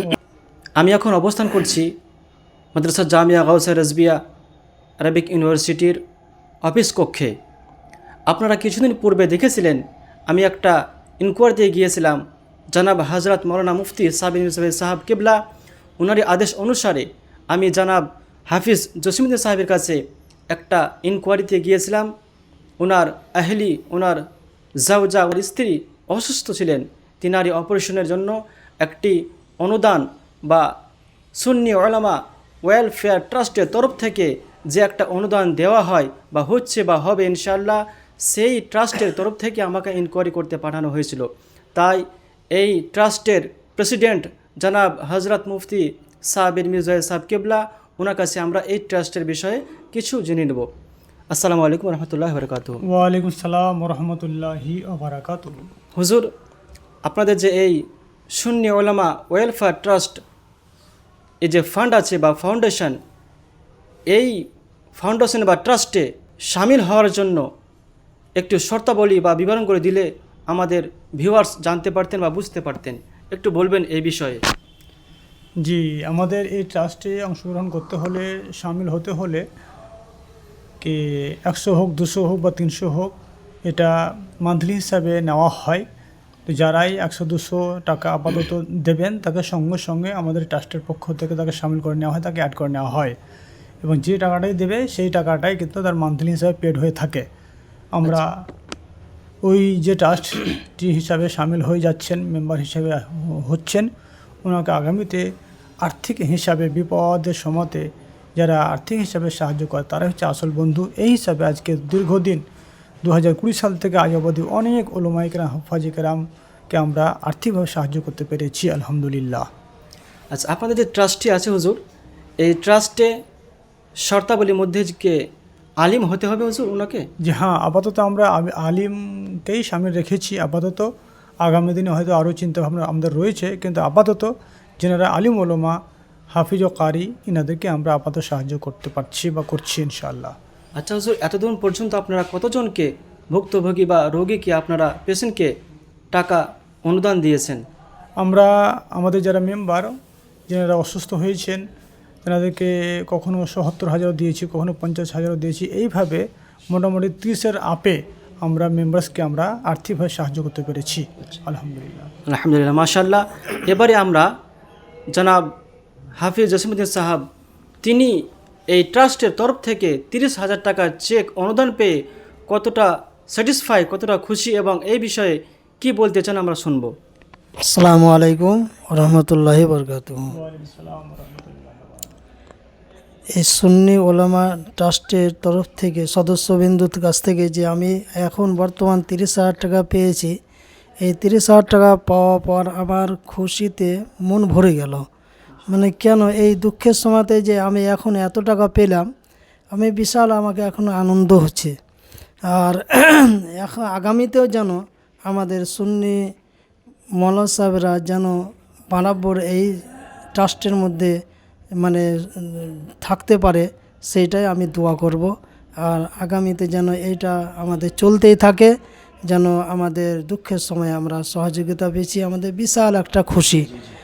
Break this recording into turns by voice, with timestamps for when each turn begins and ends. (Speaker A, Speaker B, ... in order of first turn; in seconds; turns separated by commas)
Speaker A: 0.8-1.9, Speaker A: 2.8-4.2, Speaker A: 5.0-6.0, Speaker A: 6.7-7.3, Speaker A: 8.3-12.2, Speaker A: 12.7-15.4, Speaker A: 16.0-20.0, Speaker A: 20.5-22.1, Speaker A: 22.8-24.2, Speaker A: 24.8-30.7, Speaker A: 31.4-50.7, Speaker A: 51.3-52.8, Speaker B: 52.9-55.6, Speaker A: 56.0-56.3, Speaker A: 57.0-57.8, Speaker A: 58.3-60.2, Speaker A: 61.4-63.0, Speaker A: 64.1-64.4, Speaker A: 65.0-67.5, Speaker A: 68.4-74.4, Speaker B: 75.6-79.5, Speaker B: 80.8-83.2, Speaker B: 83.7-85.8, Speaker B: 86.5-93.2, Speaker B: 93.8-97.3, Speaker B: 97.9-98.3, Speaker B: 99.4-103.9, Speaker B: 104.5-105.3, Speaker B: 105.8-107.9, Speaker B: 108.4-112.4, Speaker B: 113.0-119.5, Speaker A: 120.3-121.8, Speaker A: 122.4-123.1, Speaker A: 124.1-125.2, Speaker A: 125.8-127.1, Speaker B: 127.2-130.9, Speaker B: 131.4-135.8, Speaker B: 136.3-140.3, Speaker A: 140.8-145.5, Speaker A: 146.1-147.6, Speaker B: 148.2-149.9, Speaker B: 150.5-151.6, Speaker B: 152.2-162.1, Speaker A: 162.3-164.3, Speaker A: 165.1-165.5, Speaker A: 166.2-167.3, Speaker A: 167.8-168.2, Speaker A: 168.7-171.9, Speaker A: 172.5-176.9, Speaker C: 177.7-180.3, Speaker B: 180.3-182.1, Speaker C: 183.3-190.3, Speaker C: 191.0-195.1, Speaker C: 195.7-199.1, Speaker C: 199.7-201.7, Speaker C: 202.5-206.2, Speaker C: 207.2-208.4, Speaker C: 208.9-209.8, Speaker C: 210.3-211.1, Speaker C: 211.8-218.7, Speaker C: 219.3-223.7